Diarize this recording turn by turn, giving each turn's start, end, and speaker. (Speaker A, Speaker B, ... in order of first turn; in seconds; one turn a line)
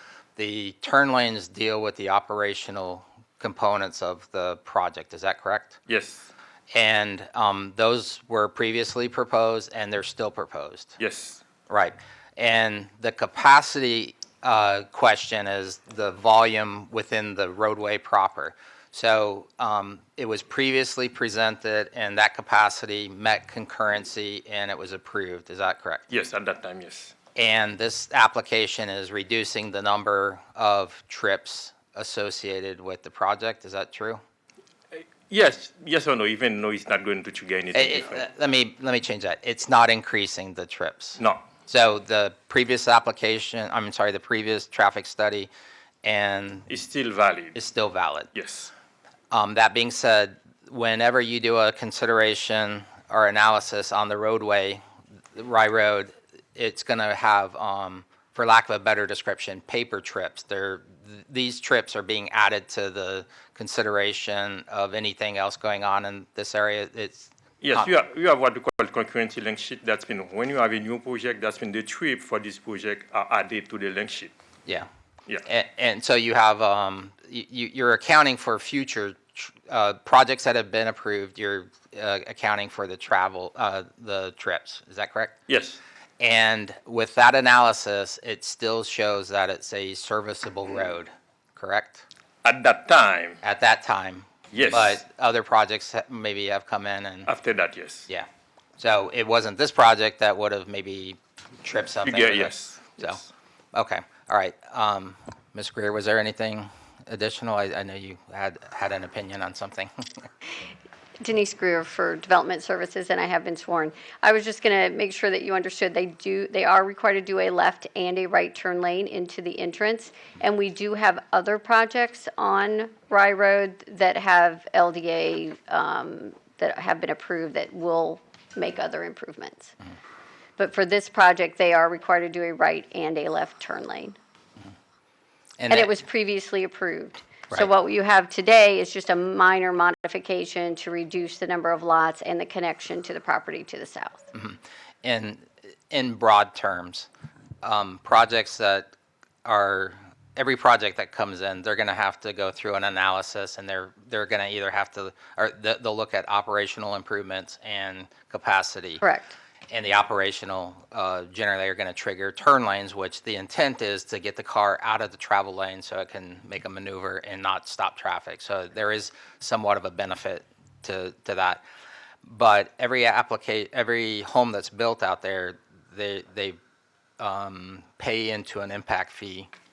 Speaker A: 0.4-5.8
Speaker B: 5.9-6.3
Speaker A: 6.7-11.0
Speaker B: 11.0-11.4
Speaker A: 11.7-26.0
Speaker B: 26.1-27.1
Speaker A: 27.3-34.2
Speaker B: 34.9-38.2
Speaker A: 37.7-45.5
Speaker B: 41.2-41.4
Speaker A: 46.0-46.7
Speaker B: 46.7-47.5
Speaker A: 47.5-48.3
Speaker B: 48.3-48.7
Speaker A: 49.3-54.8
Speaker A: 55.3-67.9
Speaker B: 67.6-74.3
Speaker A: 75.4-85.3
Speaker B: 85.5-85.8
Speaker A: 86.2-92.0
Speaker B: 92.4-93.4
Speaker A: 93.4-97.3
Speaker B: 94.5-95.0
Speaker B: 97.2-98.1
Speaker A: 98.8-103.2
Speaker B: 102.0-103.2
Speaker A: 103.7-109.9
Speaker C: 111.2-129.7
Speaker C: 130.6-134.2
Speaker A: 135.6-135.9
Speaker C: 135.7-144.2
Speaker A: 144.3-147.1
Speaker A: 147.6-148.9
Speaker A: 149.4-159.0
Speaker C: 159.0-159.3
Speaker A: 159.7-171.6
Speaker A: 172.2-176.6
Speaker A: 177.2-179.5